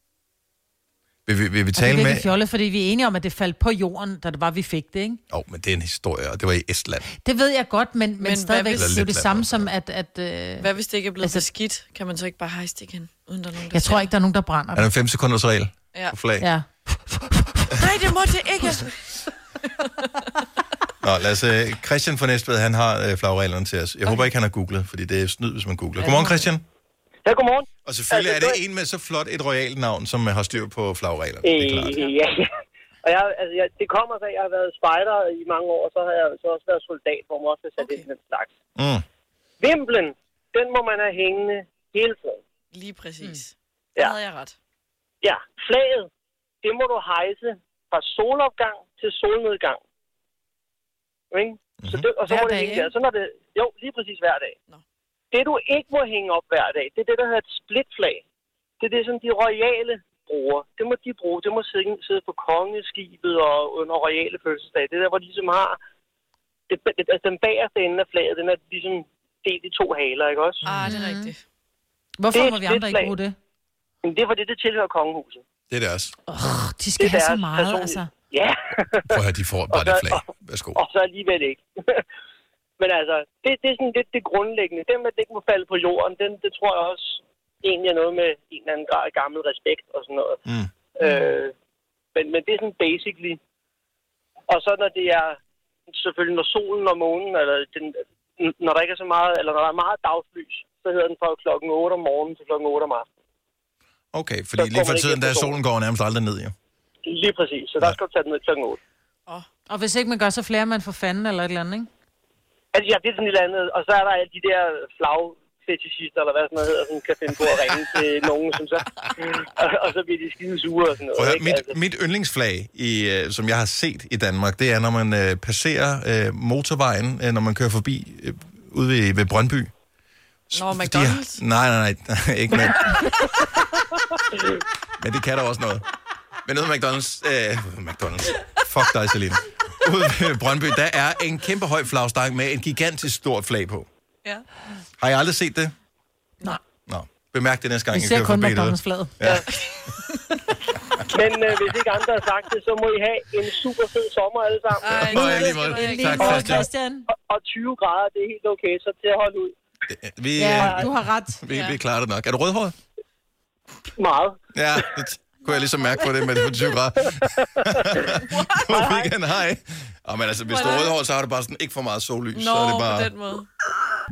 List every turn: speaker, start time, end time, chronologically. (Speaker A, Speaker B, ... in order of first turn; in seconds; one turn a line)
Speaker A: 1.2-2.3
Speaker B: 1.7-5.2
Speaker A: 5.3-7.1
Speaker B: 7.2-11.4
Speaker C: 8.2-9.0
Speaker A: 8.7-9.7
Speaker C: 10.6-14.1
Speaker B: 13.7-14.9
Speaker A: 14.7-16.5
Speaker B: 16.4-17.8
Speaker C: 17.8-19.3
Speaker A: 21.0-26.6
Speaker C: 26.0-26.4
Speaker D: 27.2-28.6
Speaker A: 27.8-32.0
Speaker D: 31.4-32.5
Speaker D: 33.0-38.5
Speaker C: 37.8-38.0
Speaker A: 38.8-39.0
Speaker D: 39.6-42.4
Speaker C: 42.7-44.5
Speaker D: 45.2-46.1
Speaker D: 46.6-49.8
Speaker D: 51.3-54.5
Speaker A: 51.8-52.0
Speaker B: 52.2-52.9
Speaker D: 55.3-58.2
Speaker D: 58.8-65.8
Speaker D: 66.7-70.8
Speaker C: 70.6-71.4
Speaker B: 70.8-71.3
Speaker B: 72.2-73.3
Speaker D: 72.3-73.1
Speaker D: 74.0-75.4
Speaker A: 75.7-76.1
Speaker B: 76.3-78.1
Speaker D: 77.0-79.2
Speaker A: 79.1-80.8
Speaker D: 79.7-80.2
Speaker D: 80.7-82.0
Speaker D: 82.8-90.4
Speaker D: 91.0-91.5
Speaker D: 92.1-93.4
Speaker D: 94.5-95.4
Speaker D: 95.9-103.0
Speaker A: 104.1-106.5
Speaker D: 104.5-105.5
Speaker D: 107.0-108.8
Speaker B: 109.7-111.9
Speaker D: 112.7-121.7
Speaker A: 121.1-129.7
Speaker A: 130.5-133.1
Speaker C: 130.5-131.4
Speaker A: 135.0-135.8
Speaker A: 136.4-143.9
Speaker A: 145.0-145.7
Speaker A: 146.9-149.4
Speaker B: 147.9-149.1
Speaker D: 151.1-155.5
Speaker C: 154.8-156.7
Speaker A: 154.9-156.7
Speaker B: 155.1-157.1
Speaker D: 156.2-156.5
Speaker D: 157.1-159.5
Speaker A: 159.9-162.7
Speaker B: 160.3-161.4
Speaker D: 160.4-160.9
Speaker C: 161.5-161.8
Speaker D: 163.9-164.8
Speaker A: 164.5-173.1
Speaker D: 167.6-168.1
Speaker C: 168.3-168.6
Speaker D: 168.7-169.1
Speaker C: 170.5-170.9
Speaker C: 172.3-173.5